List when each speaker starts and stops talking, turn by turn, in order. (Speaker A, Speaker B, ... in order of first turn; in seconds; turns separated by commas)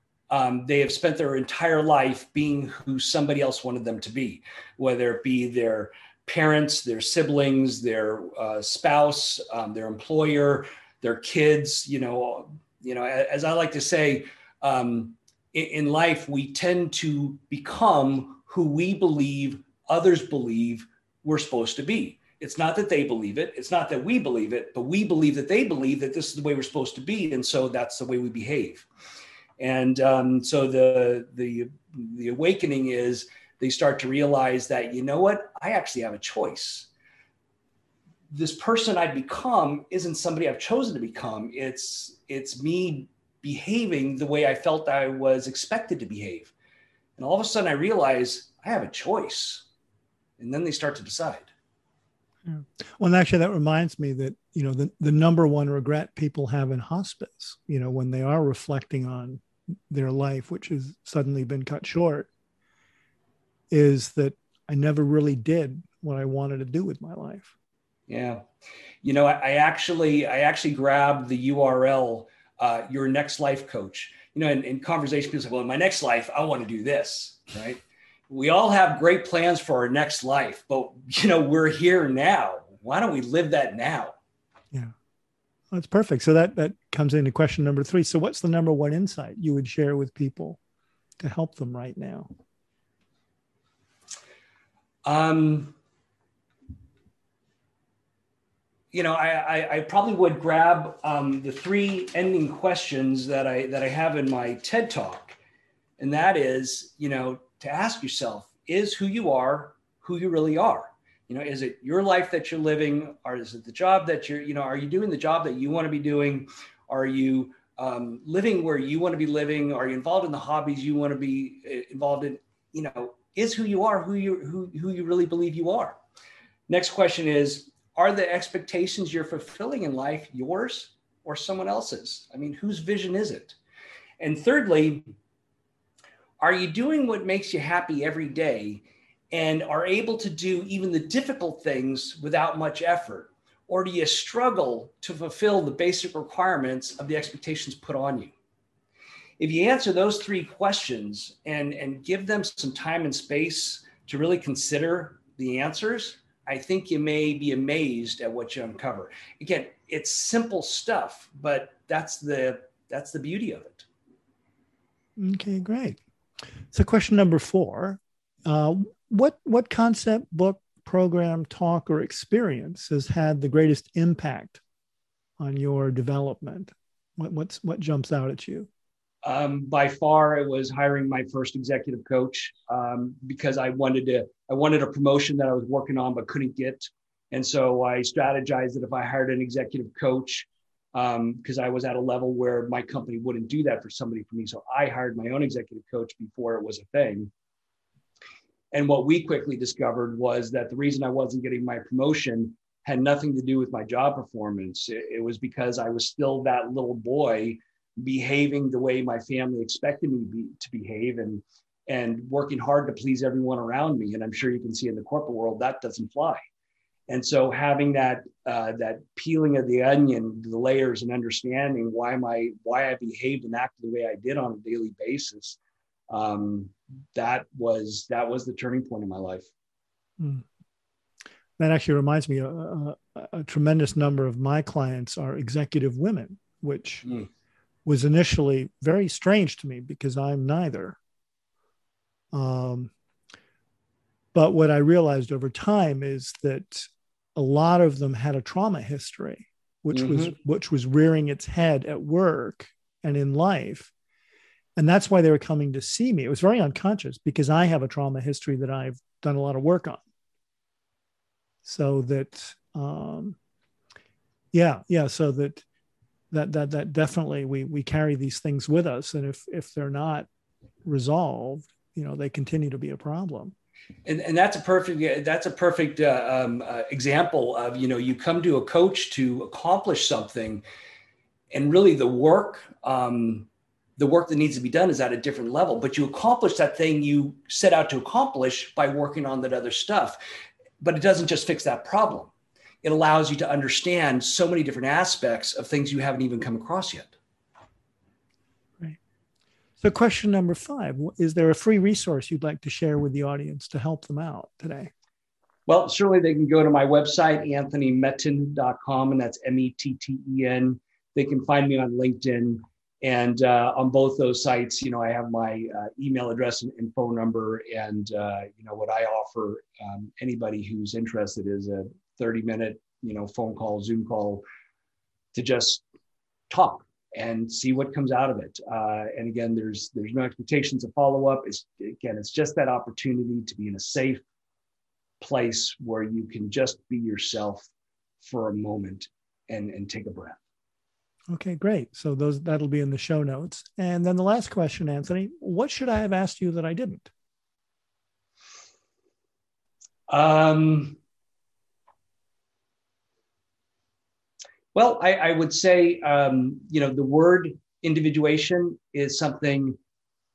Speaker A: 0.3-28.9, Speaker A: 29.6-36.9, Speaker A: 38.3-46.5, Speaker A: 47.2-49.6, Speaker A: 50.4-51.5, Speaker B: 52.4-62.3, Speaker B: 63.7-67.5, Speaker A: 68.1-68.4, Speaker A: 69.0-84.2, Speaker B: 85.7-90.6, Speaker B: 91.2-92.3, Speaker A: 95.0-95.7, Speaker A: 98.9-105.4, Speaker A: 106.0-126.0, Speaker A: 126.7-133.6, Speaker A: 134.2-135.1, Speaker A: 136.4-148.3, Speaker A: 149.4-163.8, Speaker B: 165.2-166.0, Speaker B: 166.7-174.6, Speaker B: 175.4-178.7, Speaker A: 179.2-197.3, Speaker A: 198.7-216.4, Speaker A: 217.1-225.6, Speaker A: 226.1-229.5, Speaker B: 230.2-230.4, Speaker B: 231.6-237.1, Speaker B: 237.8-241.0, Speaker B: 242.3-242.9, Speaker B: 244.3-253.9, Speaker A: 249.9-250.3, Speaker B: 254.8-260.0, Speaker B: 261.6-263.4, Speaker B: 264.5-265.6, Speaker B: 266.3-270.3, Speaker B: 270.8-273.5, Speaker A: 274.1-280.6, Speaker A: 281.5-290.2, Speaker A: 290.8-292.3, Speaker A: 292.8-297.1, Speaker B: 299.8-304.9, Speaker A: 305.7-324.4, Speaker A: 325.3-325.8, Speaker A: 326.5-334.2, Speaker A: 335.2-337.7, Speaker A: 338.2-340.4, Speaker B: 341.3-347.1, Speaker A: 350.1-351.0, Speaker A: 354.7-359.8